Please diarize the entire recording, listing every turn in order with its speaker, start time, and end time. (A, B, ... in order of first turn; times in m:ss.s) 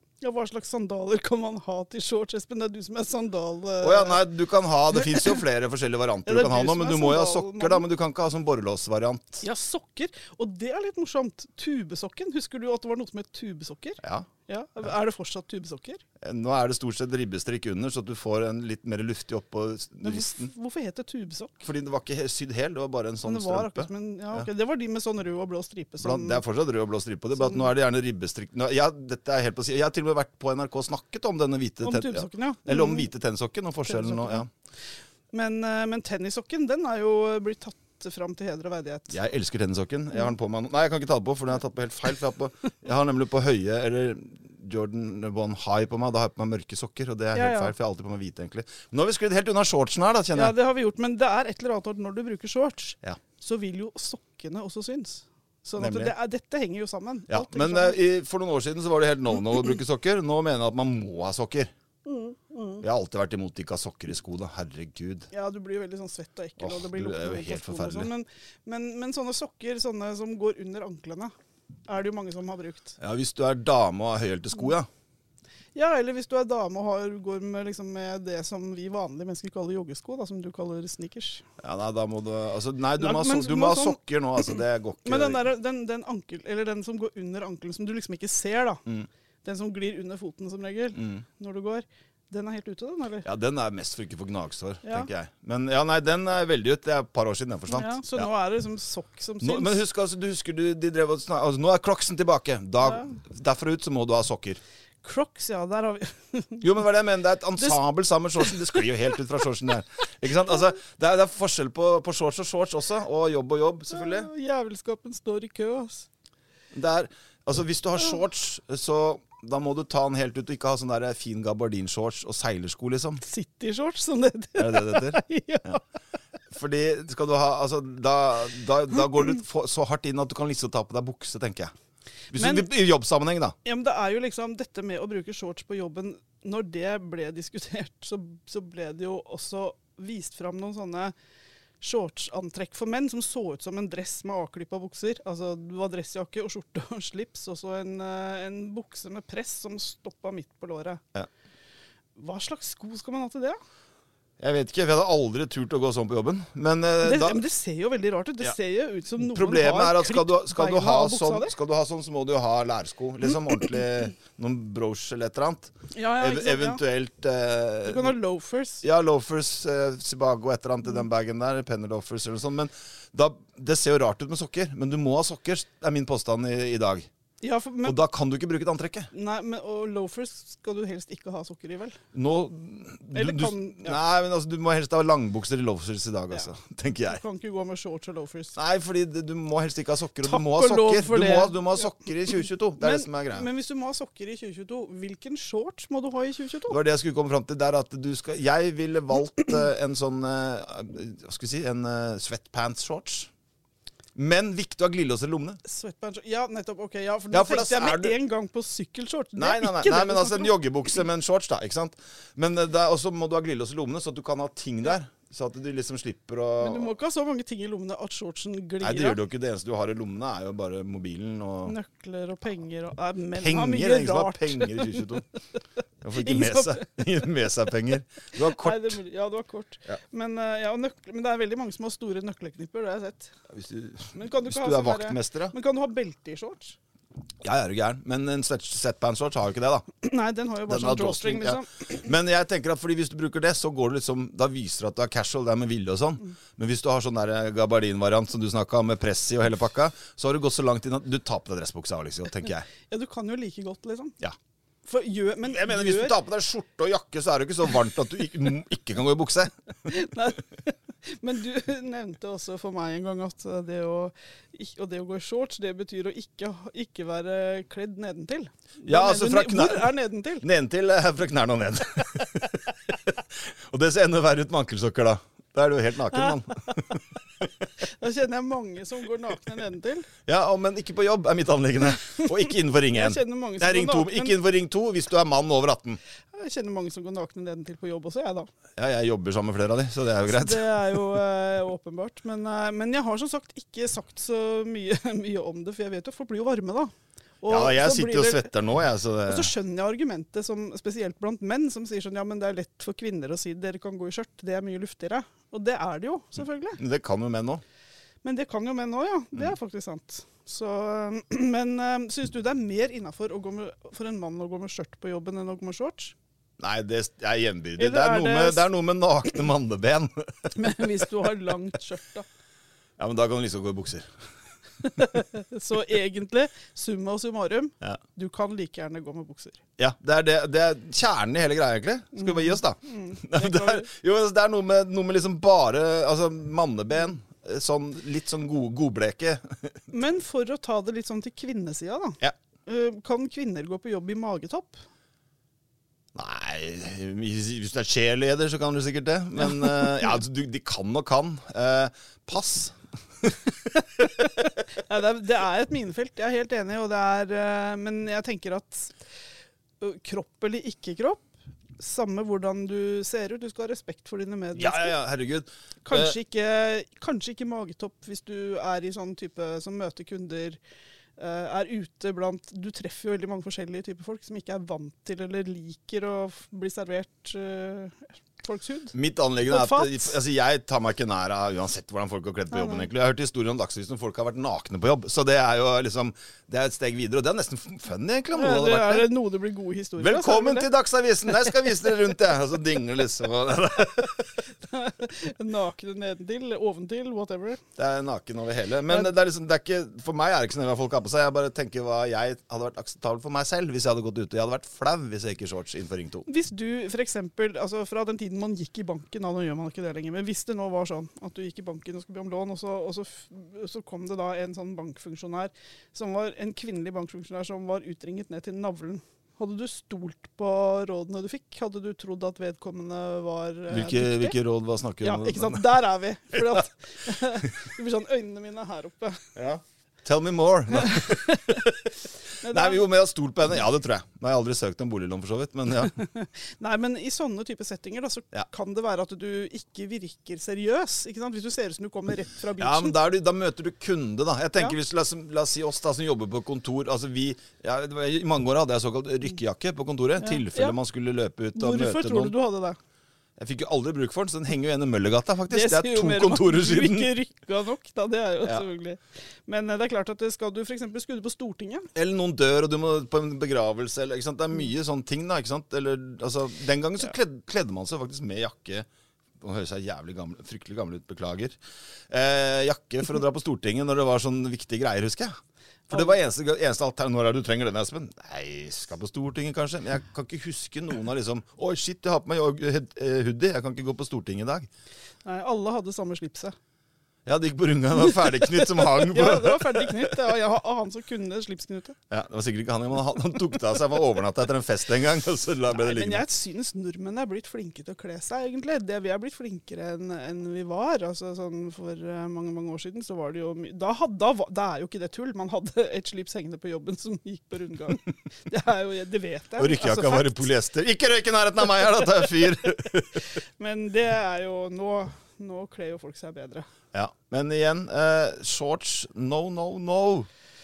0:00.2-0:04.2 A
0:03.8-0:09.4 B
0:06.2-0:07.8 A
0:09.4-0:16.0 A
0:14.0-0:14.3 B
0:16.2-0:20.5 B
0:20.0-0:21.6 A
0:21.6-0:24.5 B
0:23.2-0:26.4 A
0:26.0-0:34.5 B
0:31.8-0:33.1 A
0:33.8-0:34.4 A
0:35.3-0:39.2 A
0:39.1-0:50.5 B
0:47.3-0:47.7 A
0:50.3-0:58.0 A
0:55.8-0:56.1 B
0:57.3-1:01.7 B
1:02.0-1:02.8 A
1:02.8-1:05.3 B
1:05.3-1:11.3 A
1:06.6-1:08.1 B
1:11.9-1:13.0 A
1:13.0-1:14.9 B
1:15.7-1:21.4 A
1:21.6-1:25.4 B
1:23.0-1:28.8 A
1:29.4-1:33.3 A
1:30.9-1:31.2 B
1:33.2-1:38.3 B
1:34.8-1:35.1 A
1:37.7-1:39.8 A
1:39.4-1:44.6 B
1:45.0-1:46.7 A
1:46.6-1:54.3 B
1:48.4-1:48.9 A
1:53.9-1:56.1 A
1:56.7-2:03.2 B
2:03.2-2:05.8 A
2:04.6-2:05.8 B
2:06.5-2:11.7 B
2:12.3-2:13.5 B
2:12.3-2:12.7 A
2:13.6-2:21.1 A
2:21.8-2:31.0 A
2:32.2-2:33.6 A
2:34.4-2:37.4 B
2:37.0-2:41.5 A
2:39.2-2:48.1 B
2:45.9-2:46.8 A
2:47.8-2:48.8 A
2:48.8-2:57.1 B
2:57.4-2:58.0 A
2:57.8-2:59.1 B
2:59.1-3:02.0 A
3:02.1-3:07.2 B
3:03.1-3:04.0 A
3:07.1-3:08.6 A
3:08.6-3:13.5 B
3:10.2-3:11.6 A
3:12.8-3:16.8 A
3:16.7-3:23.3 B
3:24.1-3:25.6 B
3:25.6-3:30.5 A
3:27.3-3:28.2 B
3:29.4-3:36.9 B
3:36.6-3:39.2 A
3:38.8-3:41.8 B
3:41.6-3:45.2 A
3:43.3-3:45.2 B
3:46.0-3:49.0 B
3:46.2-3:46.8 A
3:48.4-3:53.3 A
3:53.5-3:55.5 B
3:54.1-3:56.8 A
3:57.4-3:59.9 B
4:00.0-4:01.7 A
4:00.7-4:12.7 B
4:12.9-4:14.2 A
4:14.9-4:16.2 A
4:15.4-4:19.5 B
4:19.9-4:30.5 A
4:28.8-4:37.0 B
4:36.2-4:36.5 A
4:38.0-4:40.1 A
4:40.2-4:46.0 B
4:42.9-4:44.4 A
4:46.3-4:48.5 A
4:48.8-4:50.7 B
4:50.2-4:58.5 A
4:57.5-4:59.5 B
4:59.2-5:06.8 A
5:06.8-5:07.6 B
5:08.2-5:16.1 A
5:16.6-5:20.9 B
5:17.8-5:18.7 A
5:20.5-5:22.2 A
5:23.0-5:24.1 B
5:24.8-5:29.6 A
5:29.8-5:39.7 B
5:32.2-5:33.9 A
5:39.9-5:44.8 A
5:46.1-5:54.0 B
5:49.6-5:50.0 A
5:54.8-5:59.0 A
5:59.8-6:05.0 A
6:04.5-6:06.2 B
6:05.8-6:10.6 A
6:11.2-6:18.9 A
6:18.9-6:29.1 B
6:19.4-6:20.2 A
6:22.5-6:22.9 A
6:28.3-6:30.7 A
6:30.0-6:34.3 B
6:34.6-6:37.6 A
6:37.8-6:46.2 B
6:46.2-7:04.4 A
7:03.7-7:05.8 B
7:05.0-7:09.2 A
7:09.4-7:11.9 B
7:10.8-7:11.6 A
7:12.4-7:12.9 A
7:12.4-7:15.9 B
7:15.9-7:23.0 A
7:22.6-7:32.3 B
7:30.2-7:30.8 A
7:31.5-7:32.8 A
7:33.4-7:37.1 B
7:35.5-7:41.9 A
7:41.9-7:48.9 B
7:49.4-7:51.6 B
7:52.1-7:55.3 B
7:55.9-8:04.7 B
8:05.2-8:06.6 A
8:07.2-8:10.3 B
8:08.1-8:12.0 A
8:12.1-8:16.2 B
8:15.7-8:30.5 A
8:29.6-8:33.3 B
8:33.6-8:36.7 A
8:36.9-8:40.3 B